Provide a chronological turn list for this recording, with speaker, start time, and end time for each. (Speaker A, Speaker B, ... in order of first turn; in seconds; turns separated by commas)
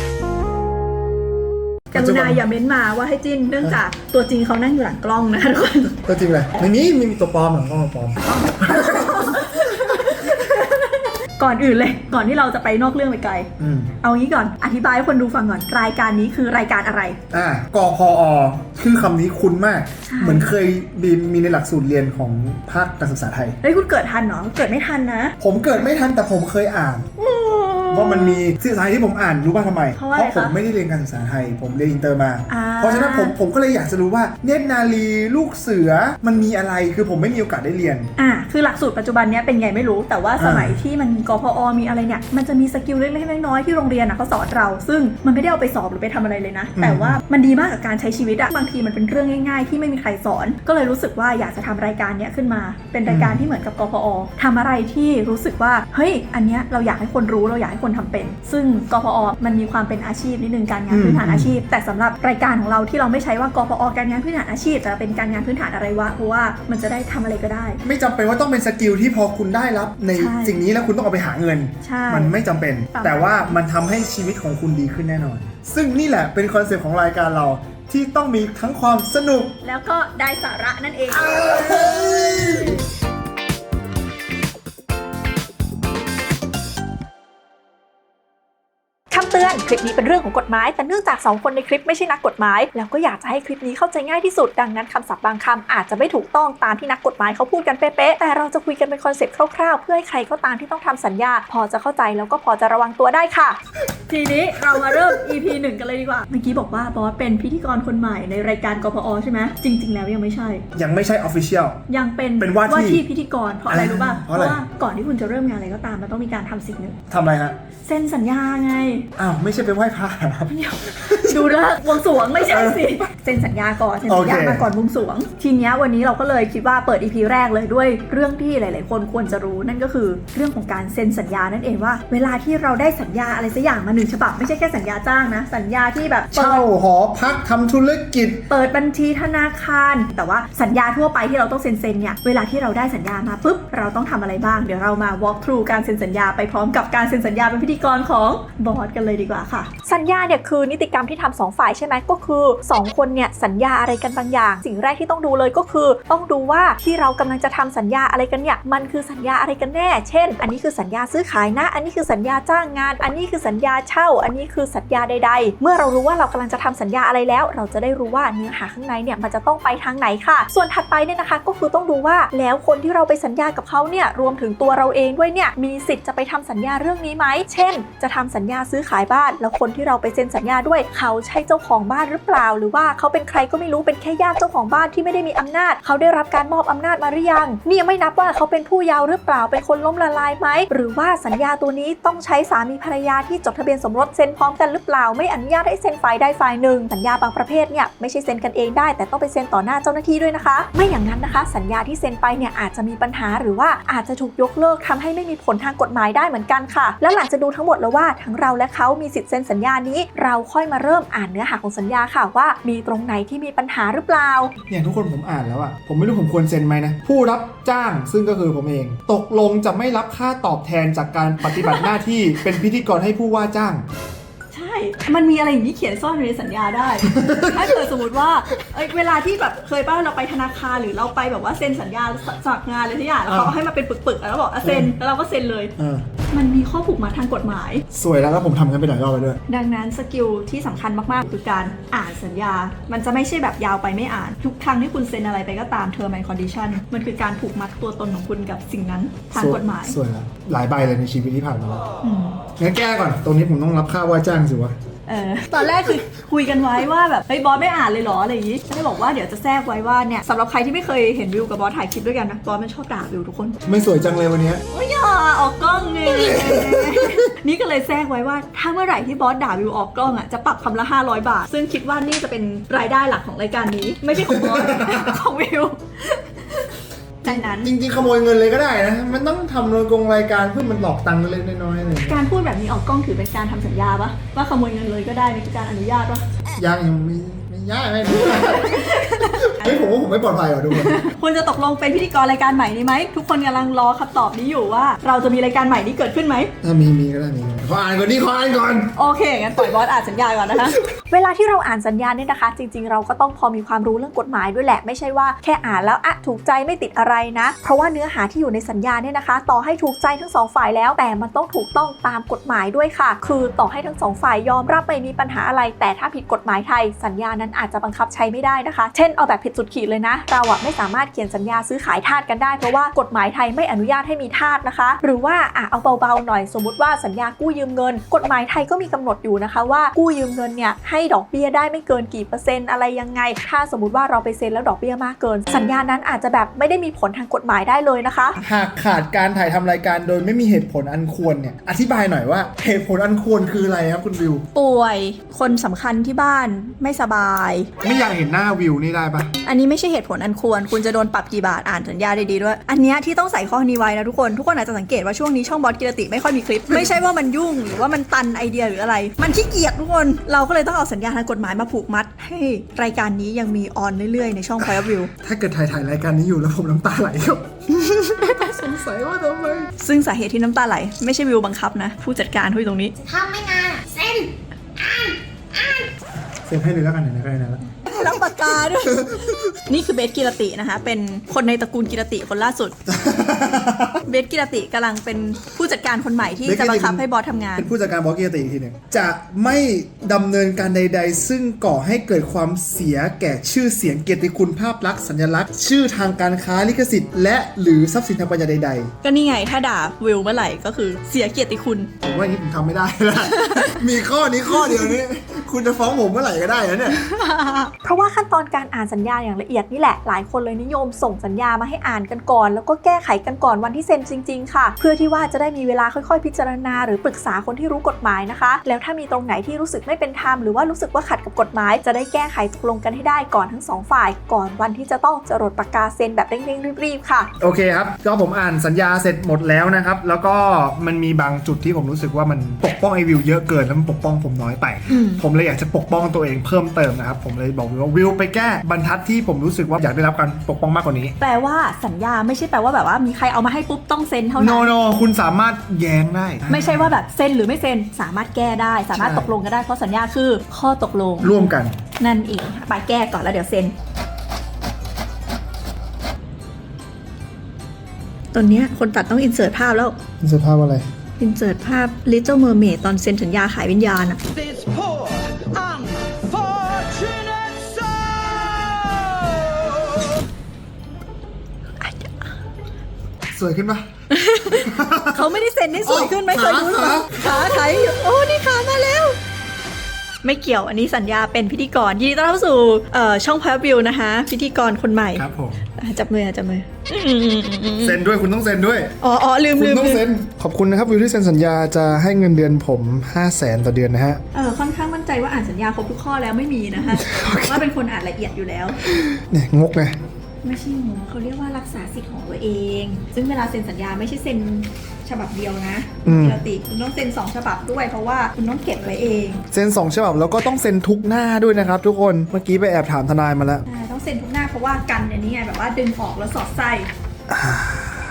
Speaker A: 1.9-2.4, Speaker B: 1.9-6.0, Speaker A: 6.1-10.2, Speaker B: 8.3-13.5, Speaker A: 13.6-13.9, Speaker B: 14.0-17.2, Speaker A: 17.3-23.6, Speaker B: 20.1-20.5, Speaker B: 23.6-25.4, Speaker A: 25.4-27.1, Speaker B: 27.2-28.4, Speaker A: 27.9-38.1, Speaker B: 30.0-30.6, Speaker B: 32.5-33.4, Speaker B: 38.2-67.8, Speaker A: 40.4-40.8, Speaker A: 46.8-47.2, Speaker A: 53.1-53.4, Speaker A: 60.9-61.6, Speaker A: 67.8-79.5, Speaker B: 70.2-70.6, Speaker B: 71.8-72.3, Speaker B: 72.9-73.6, Speaker B: 79.6-82.8, Speaker A: 81.2-82.8, Speaker B: 89.1-103.6, Speaker B: 104.1-110.6, Speaker A: 104.7-105.2, Speaker A: 110.8-111.8, Speaker B: 111.9-117.0, Speaker A: 112.4-113.0, Speaker A: 113.7-114.7, Speaker A: 117.1-117.6, Speaker B: 117.8-119.1, Speaker A: 119.2-121.5, Speaker B: 120.5-136.6, Speaker A: 122.3-123.0, Speaker A: 124.1-124.7, Speaker A: 136.3-138.4, Speaker B: 138.5-214.5, Speaker A: 214.7-223.8, Speaker B: 221.5-221.9, Speaker B: 224.5-235.7, Speaker A: 227.0-227.8, Speaker A: 233.3-233.6, Speaker A: 234.6-234.9, Speaker A: 235.8-236.1, Speaker B: 236.3-237.8, Speaker A: 237.9-239.4, Speaker B: 239.5-250.0, Speaker A: 249.3-251.8, Speaker B: 252.0-252.4, Speaker A: 252.6-254.8, Speaker B: 255.1-263.6, Speaker A: 263.6-264.6, Speaker B: 264.7-277.7, Speaker A: 266.1-267.3, Speaker A: 274.1-275.2, Speaker A: 277.2-282.2, Speaker B: 282.1-286.2, Speaker A: 286.6-291.0, Speaker B: 288.1-289.8, Speaker B: 290.7-296.5, Speaker A: 296.6-298.9, Speaker B: 298.9-338.4, Speaker A: 338.4-344.4, Speaker B: 344.6-347.7, Speaker A: 347.8-349.3, Speaker B: 349.4-365.1, Speaker A: 365.2-369.7, Speaker B: 368.2-368.6, Speaker B: 369.8-373.0, Speaker C: 373.0-375.9, Speaker A: 376.4-378.1, Speaker B: 377.9-382.7, Speaker A: 378.7-379.4, Speaker A: 382.9-384.0, Speaker B: 384.1-387.7, Speaker A: 386.5-387.0, Speaker A: 387.6-398.9, Speaker B: 399.0-401.9, Speaker A: 402.0-407.0, Speaker B: 403.3-403.8, Speaker B: 407.0-427.3, Speaker A: 427.4-441.1, Speaker B: 434.9-435.2, Speaker B: 441.2-444.7, Speaker A: 444.4-447.0, Speaker B: 446.5-451.3, Speaker A: 448.9-449.3, Speaker A: 451.2-451.8, Speaker B: 452.0-453.7, Speaker B: 458.3-459.9, Speaker A: 460.2-460.9, Speaker B: 461.2-464.2, Speaker C: 464.5-464.9, Speaker C: 465.6-465.9, Speaker C: 466.4-467.2, Speaker B: 471.8-472.3, Speaker A: 473.3-473.9, Speaker B: 474.1-479.2, Speaker A: 474.5-475.3, Speaker A: 475.8-477.2, Speaker B: 480.2-488.0, Speaker A: 485.1-485.6, Speaker A: 487.8-488.9, Speaker B: 489.0-490.0, Speaker A: 489.5-494.2, Speaker B: 494.3-498.8, Speaker A: 496.9-497.6, Speaker A: 498.8-499.9, Speaker B: 500.4-509.4, Speaker A: 506.1-506.4, Speaker A: 509.5-513.6, Speaker B: 513.7-516.9, Speaker A: 517.3-518.0